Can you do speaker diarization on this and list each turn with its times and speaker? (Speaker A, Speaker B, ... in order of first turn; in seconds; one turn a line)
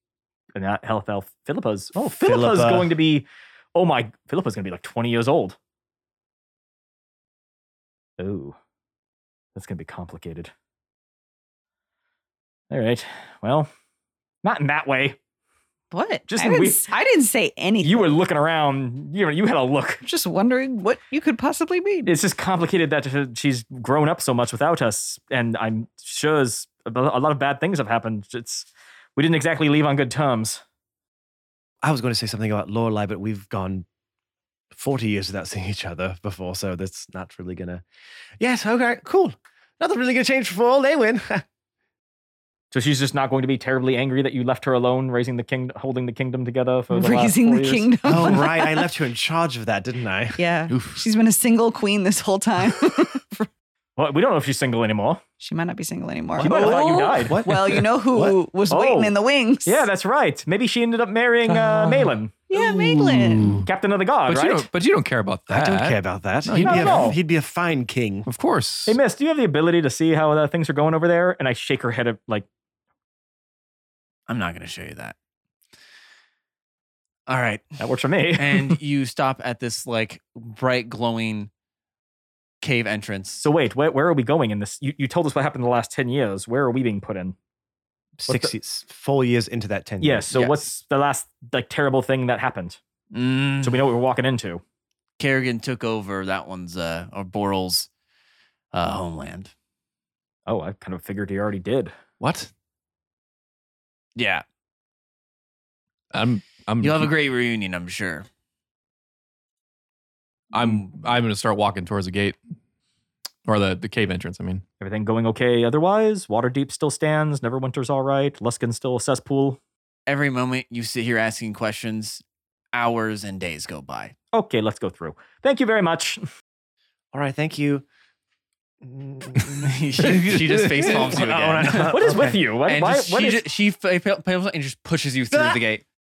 Speaker A: 0.6-5.6
Speaker B: 2.0-2.9
Speaker A: 8.2-8.6
Speaker A: 9.6-10.5
Speaker A: 12.7-13.7
Speaker A: 14.4-15.2
Speaker C: 15.9-18.1
Speaker A: 16.3-16.9
Speaker A: 17.8-20.0
Speaker C: 20.0-22.1
Speaker A: 22.1-30.6
Speaker B: 31.8-33.9
Speaker B: 34.7-37.8
Speaker B: 38.4-41.4
Speaker A: 42.7-48.4
Speaker C: 46.9-48.9
Speaker B: 48.0-50.4
Speaker C: 50.4-53.5
Speaker D: 50.7-51.0
Speaker A: 54.0-55.2
Speaker C: 55.4-59.9
Speaker A: 56.3-57.4
Speaker B: 56.4-58.4
Speaker A: 58.7-62.3
Speaker C: 61.5-63.6
Speaker D: 62.5-63.6
Speaker A: 63.6-64.7
Speaker D: 64.3-67.2
Speaker B: 65.5-68.3
Speaker A: 66.5-67.2
Speaker D: 68.3-69.0
Speaker A: 68.9-72.5
Speaker E: 74.3-75.2
Speaker E: 77.3-77.8
Speaker A: 77.8-78.8
Speaker E: 78.3-81.5
Speaker E: 82.6-83.4
Speaker A: 83.4-87.4
Speaker A: 88.2-88.5
Speaker B: 88.3-90.3
Speaker A: 90.0-92.8
Speaker E: 90.3-90.7
Speaker E: 93.1-93.8
Speaker A: 93.6-94.6
Speaker E: 95.2-97.9
Speaker E: 98.7-99.5
Speaker A: 100.5-101.9
Speaker D: 102.2-102.5
Speaker E: 104.2-104.4
Speaker D: 106.1-107.1
Speaker E: 106.8-108.3
Speaker D: 110.5-112.4
Speaker E: 110.6-110.9
Speaker D: 113.5-114.6
Speaker A: 114.8-119.6
Speaker E: 120.1-122.2
Speaker E: 122.7-124.1
Speaker A: 124.3-126.2
Speaker B: 127.1-127.8
Speaker B: 128.8-129.8
Speaker E: 129.6-135.8
Speaker D: 130.0-131.2
Speaker B: 130.9-132.4
Speaker A: 131.8-133.4
Speaker B: 135.3-135.6